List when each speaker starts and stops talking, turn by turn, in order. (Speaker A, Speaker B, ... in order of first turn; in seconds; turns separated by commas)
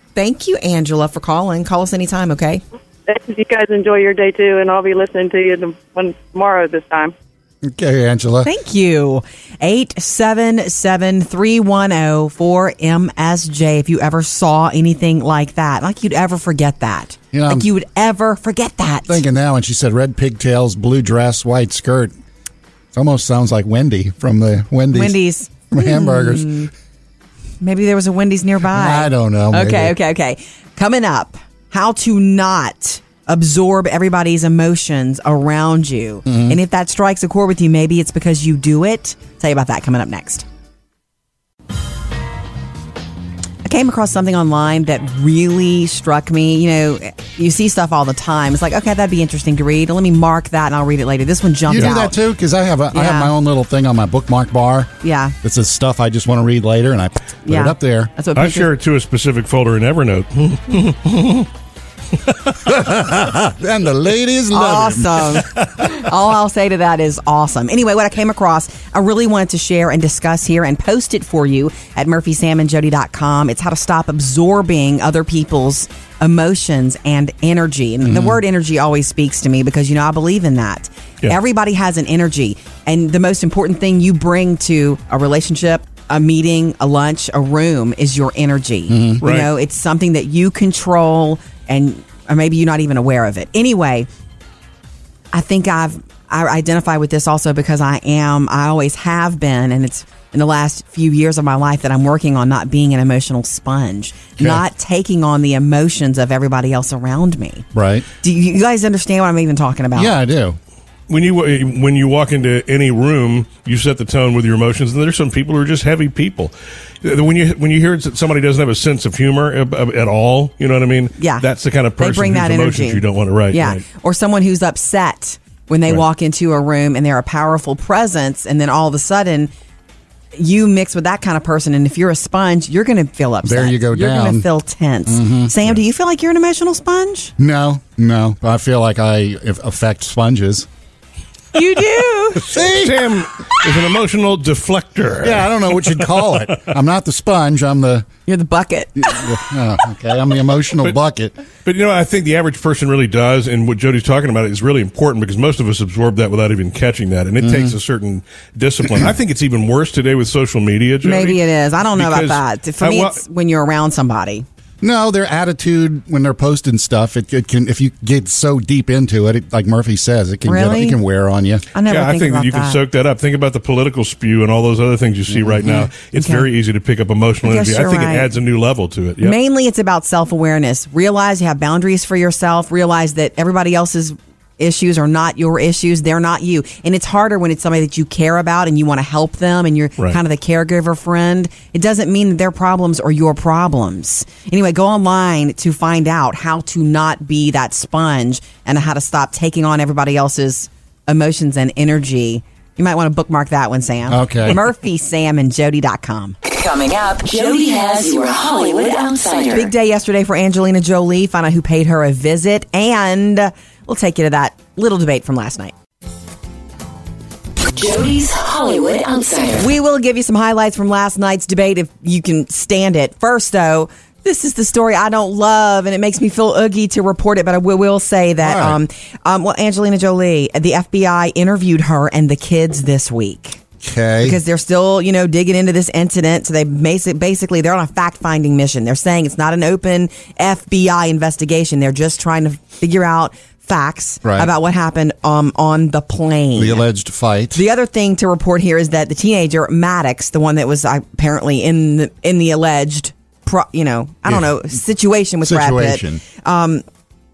Speaker A: 0.2-2.6, Speaker B: 3.1-7.1, Speaker C: 7.6-8.5, Speaker A: 8.4-19.2, Speaker C: 17.3-17.7, Speaker C: 19.1-22.1, Speaker C: 22.9-25.2, Speaker A: 24.9-26.7, Speaker C: 25.7-26.6, Speaker A: 27.6-40.5, Speaker C: 28.7-30.0, Speaker C: 36.3-36.6, Speaker A: 43.6-52.1, Speaker C: 51.7-58.1, Speaker A: 52.9-53.3, Speaker A: 55.0-55.4, Speaker A: 57.5-58.7, Speaker D: 58.4-61.5, Speaker C: 62.6-65.5, Speaker A: 64.5-94.1, Speaker C: 78.0-78.4, Speaker C: 88.9-89.2, Speaker D: 89.2-89.5, Speaker A: 95.3-107.7, Speaker C: 107.7-108.1, Speaker A: 108.2-110.2, Speaker C: 110.0-110.6, Speaker D: 111.1-123.8, Speaker A: 121.2-121.4, Speaker A: 122.0-129.5, Speaker A: 130.3-137.3, Speaker C: 133.4-134.5, Speaker C: 135.1-135.5, Speaker C: 137.4-140.7, Speaker A: 141.5-142.6, Speaker C: 142.4-143.2, Speaker D: 142.5-146.6, Speaker C: 145.2-148.1, Speaker A: 148.3-149.3, Speaker C: 149.0-151.4, Speaker D: 151.7-163.2, Speaker C: 157.4-157.8, Speaker A: 161.0-164.5, Speaker C: 164.8-171.7, Speaker A: 170.5-171.0, Speaker A: 171.7-172.8, Speaker D: 171.9-179.4, Speaker C: 175.3-175.8, Speaker A: 175.6-176.5, Speaker A: 177.4-178.3, Speaker A: 179.2-206.4, Speaker C: 204.1-204.6, Speaker E: 206.4-209.7, Speaker A: 209.5-215.7, Speaker E: 217.7-219.7, Speaker A: 219.6-233.6, Speaker C: 228.4-228.8, Speaker C: 233.8-234.4, Speaker A: 234.2-246.8, Speaker C: 244.2-244.5, Speaker C: 246.6-247.6, Speaker A: 247.5-256.8, Speaker C: 254.3-254.5, Speaker C: 255.4-256.2